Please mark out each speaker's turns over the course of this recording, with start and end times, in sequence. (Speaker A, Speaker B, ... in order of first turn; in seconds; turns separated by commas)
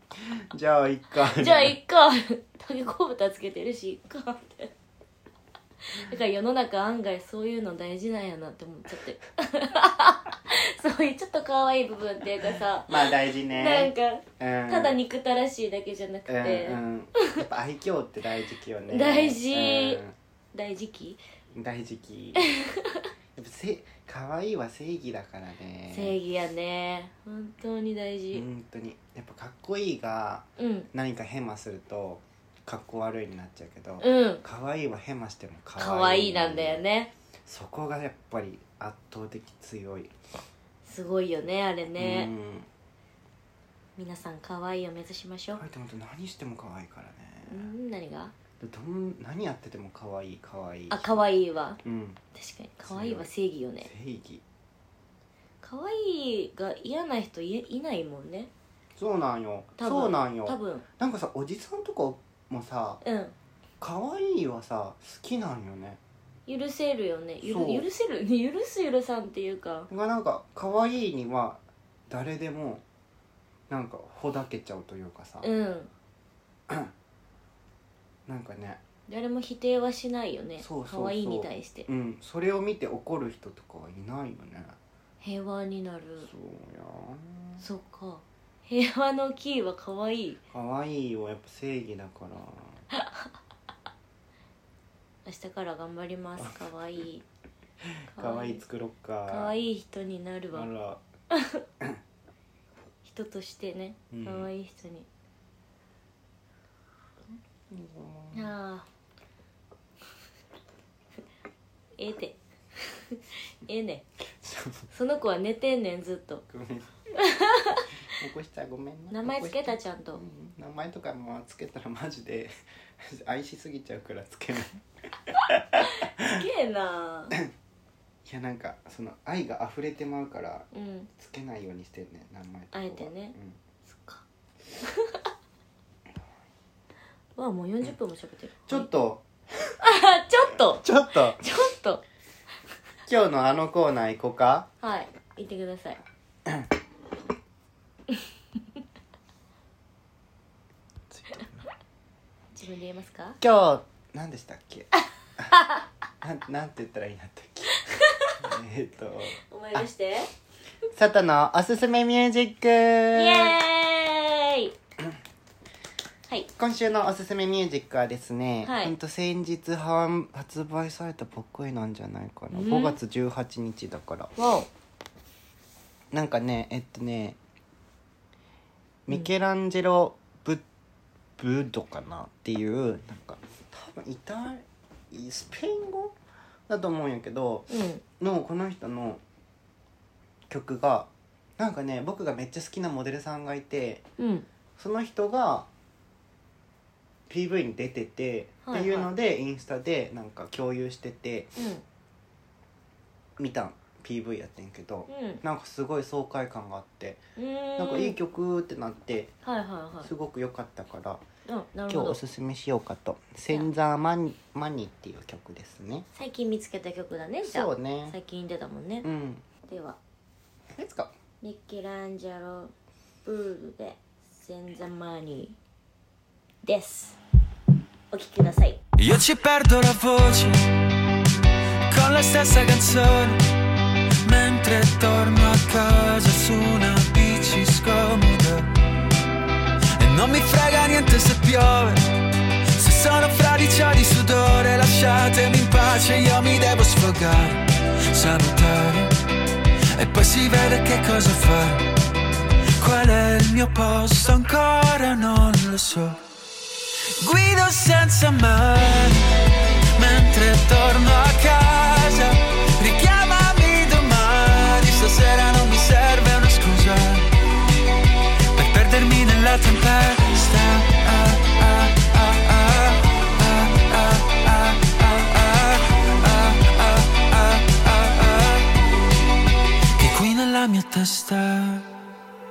Speaker A: 0.2-1.8, Speaker B: 1.3-4.7, Speaker B: 5.9-17.4, Speaker A: 12.9-15.0, Speaker A: 16.3-20.1, Speaker B: 18.9-20.0, Speaker B: 20.5-21.2, Speaker A: 21.5-22.5, Speaker B: 22.4-23.1, Speaker A: 23.3-26.1, Speaker B: 25.9-28.4, Speaker A: 28.3-36.8, Speaker B: 30.6-30.9, Speaker B: 34.0-34.4, Speaker B: 35.8-37.1, Speaker A: 37.5-40.1, Speaker B: 40.8-42.3, Speaker A: 42.0-42.7, Speaker B: 44.0-45.6, Speaker A: 45.5-47.7, Speaker B: 47.5-48.3, Speaker A: 48.6-51.1, Speaker B: 50.9-51.8, Speaker A: 51.8-52.2, Speaker B: 52.3-53.9, Speaker A: 52.8-53.3, Speaker A: 53.8-54.4, Speaker B: 55.6-58.5, Speaker A: 59.0-63.0, Speaker B: 59.8-60.8, Speaker B: 63.0-63.3, Speaker A: 63.8-66.0, Speaker B: 66.5-69.9, Speaker A: 67.4-67.9, Speaker A: 69.9-72.8, Speaker A: 73.7-75.5, Speaker B: 75.4-75.9, Speaker A: 78.2-78.8, Speaker B: 79.1-81.9, Speaker A: 80.6-84.8, Speaker B: 85.2-86.3, Speaker A: 86.2-87.6, Speaker B: 87.6-90.4, Speaker A: 90.5-92.8, Speaker B: 92.9-93.3, Speaker B: 95.2-97.2, Speaker A: 97.8-99.5, Speaker B: 98.1-98.6, Speaker B: 99.3-100.7, Speaker A: 100.5-101.0, Speaker B: 101.3-101.6, Speaker B: 103.0-105.1, Speaker A: 104.1-104.5, Speaker A: 107.7-108.5, Speaker B: 108.3-108.9, Speaker B: 112.0-114.0, Speaker A: 114.4-114.9, Speaker B: 114.9-116.4, Speaker A: 116.5-117.0, Speaker B: 117.2-117.9, Speaker A: 118.1-126.4, Speaker B: 119.1-120.2, Speaker B: 126.0-127.4, Speaker A: 128.2-133.6, Speaker B: 130.7-131.1, Speaker B: 132.7-134.2, Speaker B: 134.8-135.2, Speaker B: 137.3-138.9, Speaker A: 138.7-139.7, Speaker B: 139.8-142.0, Speaker A: 140.8-141.4, Speaker A: 143.1-144.7, Speaker B: 144.8-146.0, Speaker A: 151.1-151.7, Speaker B: 152.5-153.4, Speaker A: 153.4-155.5, Speaker B: 155.5-155.8, Speaker A: 156.2-157.8, Speaker B: 157.9-158.4, Speaker A: 158.4-159.4, Speaker B: 159.5-160.3, Speaker A: 160.9-163.6, Speaker B: 163.1-164.7, Speaker A: 166.5-174.3, Speaker B: 168.6-168.9, Speaker B: 172.5-173.0, Speaker B: 174.3-174.7, Speaker A: 176.1-177.4, Speaker A: 179.1-180.6, Speaker A: 181.4-186.2, Speaker A: 186.7-189.2, Speaker B: 187.7-188.0, Speaker A: 190.5-194.0, Speaker B: 194.2-194.4, Speaker A: 194.8-195.7, Speaker A: 197.3-201.6, Speaker B: 198.6-199.1, Speaker B: 201.6-201.8, Speaker A: 203.4-207.2, Speaker B: 205.1-205.4, Speaker B: 207.4-208.2, Speaker A: 207.8-209.3, Speaker B: 209.4-210.1, Speaker A: 210.0-211.2, Speaker B: 211.4-212.2, Speaker A: 211.9-216.1, Speaker B: 216.1-219.1, Speaker A: 217.4-218.2, Speaker A: 219.0-219.4, Speaker B: 219.6-220.0, Speaker A: 220.7-221.1, Speaker B: 221.4-222.7, Speaker B: 223.2-225.6, Speaker B: 226.6-227.2, Speaker B: 228.1-228.8, Speaker C: 229.0-230.6, Speaker C: 231.9-233.4, Speaker C: 234.2-238.7, Speaker C: 239.9-242.1, Speaker C: 242.7-249.2, Speaker C: 249.9-251.9, Speaker C: 252.8-256.2, Speaker C: 257.1-267.3, Speaker C: 268.5-278.8, Speaker C: 279.9-281.9